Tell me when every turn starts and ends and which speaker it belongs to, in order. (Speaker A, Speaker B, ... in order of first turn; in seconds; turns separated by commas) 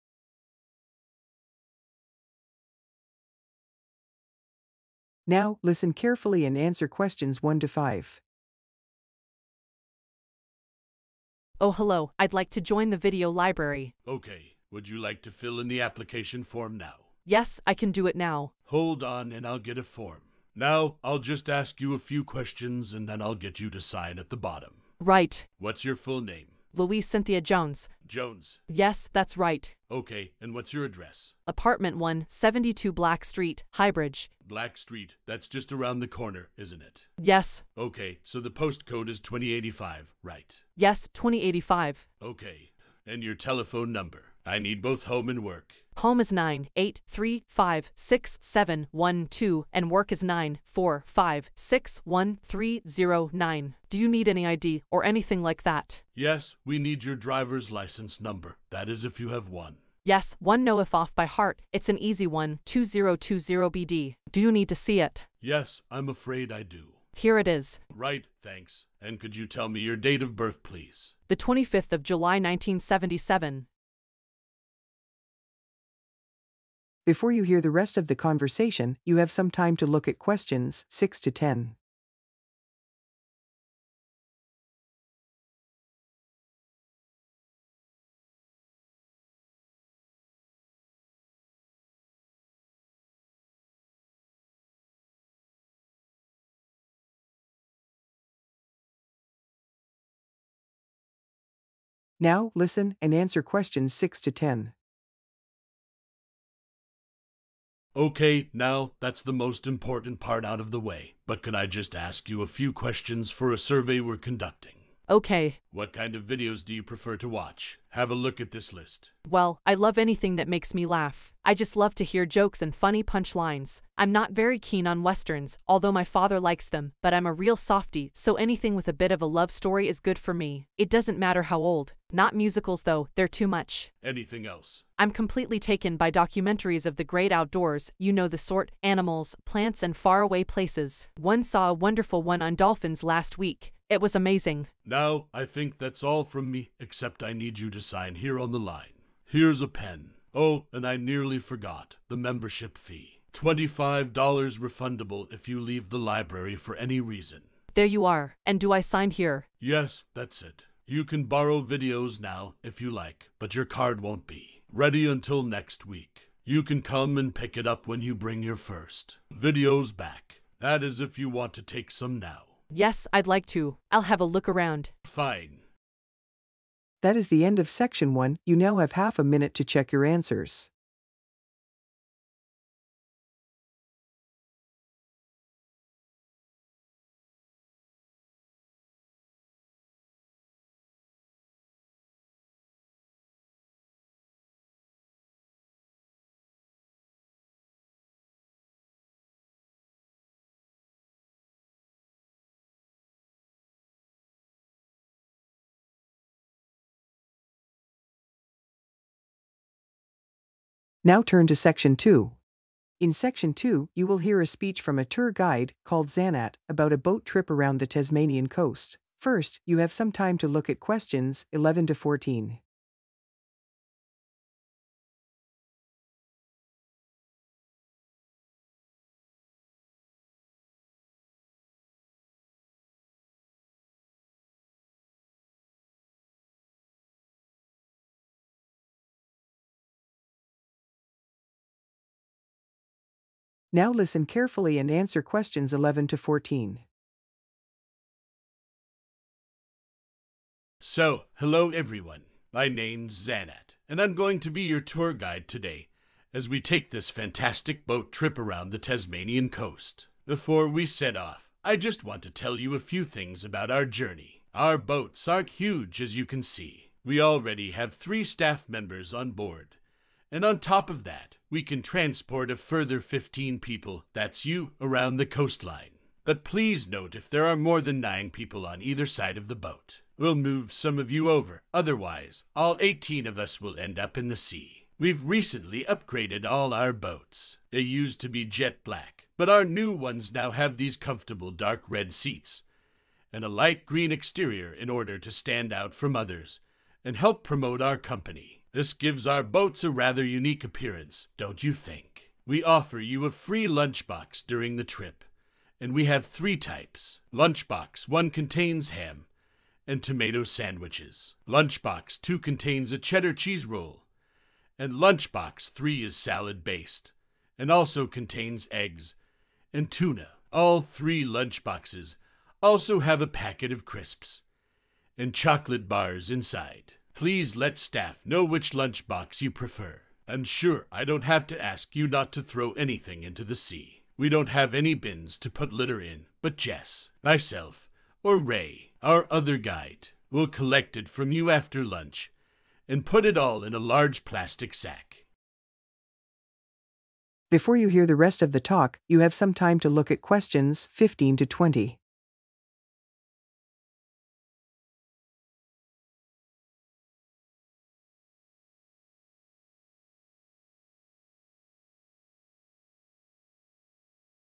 Speaker A: 5.2-8.2, Speaker B: 11.6-13.9, Speaker C: 14.0-17.0, Speaker B: 17.2-18.5, Speaker C: 18.7-24.8, Speaker B: 25.0-25.5, Speaker C: 25.6-26.6, Speaker B: 26.7-27.9, Speaker C: 28.0-28.6, Speaker B: 28.7-29.7, Speaker C: 29.9-31.4, Speaker B: 31.5-34.3, Speaker C: 34.4-37.1, Speaker B: 37.2-37.6, Speaker C: 37.8-40.6, Speaker B: 40.8-42.0, Speaker C: 42.2-45.8, Speaker B: 46.0-56.0, Speaker C: 56.1-59.8, Speaker B: 60.0-65.2, Speaker C: 65.4-67.0, Speaker B: 67.1-67.8, Speaker C: 67.9-71.2, Speaker B: 71.3-73.7, Speaker A: 77.0-81.8, Speaker A: 102.2-104.7, Speaker C: 107.9-114.8, Speaker B: 115.1-115.6, Speaker C: 115.7-119.1, Speaker B: 119.3-133.9, Speaker C: 134.0-134.8, Speaker B: 135.0-144.7, Speaker C: 144.8-157.5, Speaker B: 157.7-159.4, Speaker C: 159.6-172.5, Speaker B: 172.7-174.9, Speaker C: 175.0-175.6, Speaker A: 177.0-180.7, Speaker A: 211.0-212.4, Speaker A: 213.0-222.6, Speaker A: 243.7-246.8, Speaker C: 250.8-269.8, Speaker C: 270.3-292.6, Speaker C: 293.3-305.2, Speaker C: 305.8-309.3, Speaker C: 309.9-314.0, Speaker C: 314.8-319.1, Speaker C: 319.7-324.4, Speaker C: 325.2-342.3, Speaker C: 342.9-345.2, Speaker A: 347.5-352.0